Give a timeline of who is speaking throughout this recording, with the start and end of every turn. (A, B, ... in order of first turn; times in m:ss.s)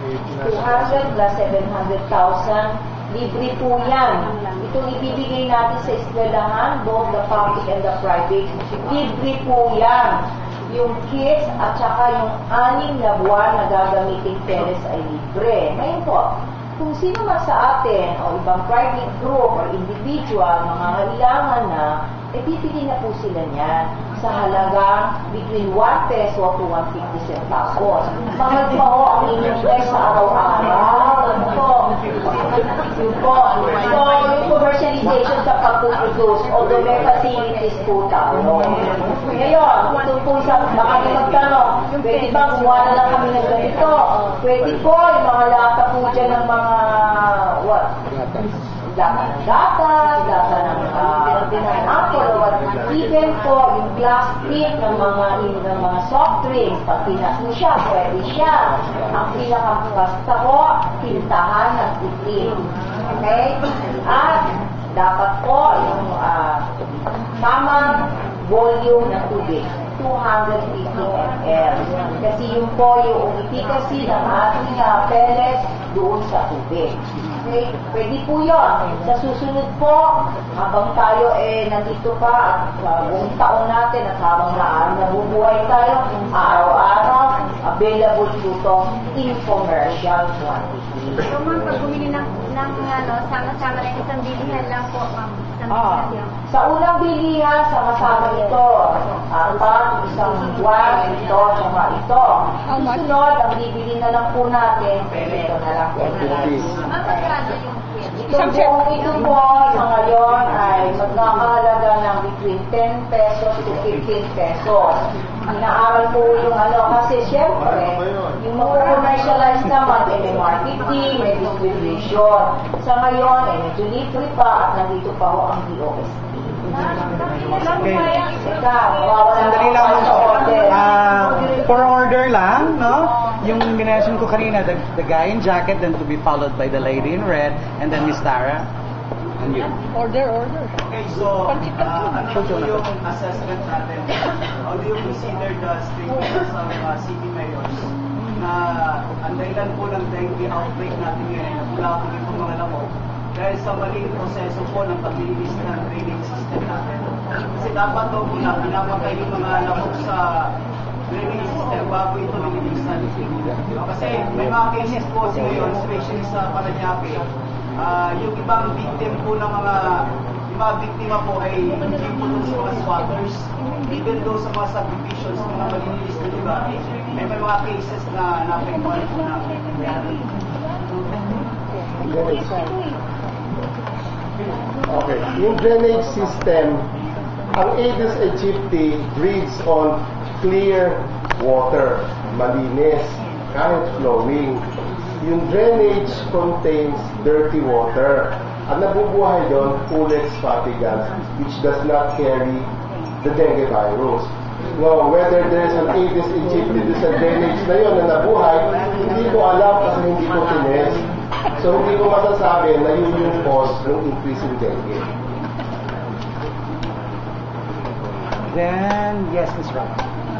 0:00.3-0:48.0 A
0:04.3-0:04.6 B
0:48.8-1:06.8 A
1:07.4-1:31.3 A
1:31.2-1:36.3 B
1:36.5-1:47.3 A
1:46.3-1:46.7 C
1:47.0-1:48.1 B
1:48.2-2:06.8 A
2:07.7-2:08.1 D
2:08.1-2:10.8 A
2:09.4-2:18.7 D
2:19.4-2:19.8 D
2:20.8-2:40.5 E
2:41.1-2:47.3 E
2:47.8-3:00.3 E
3:02.0-3:02.8 C
3:04.9-3:06.9 C
3:07.5-3:14.7 C
3:15.2-3:22.7 C
3:23.2-3:35.1 C
3:38.5-3:39.9 D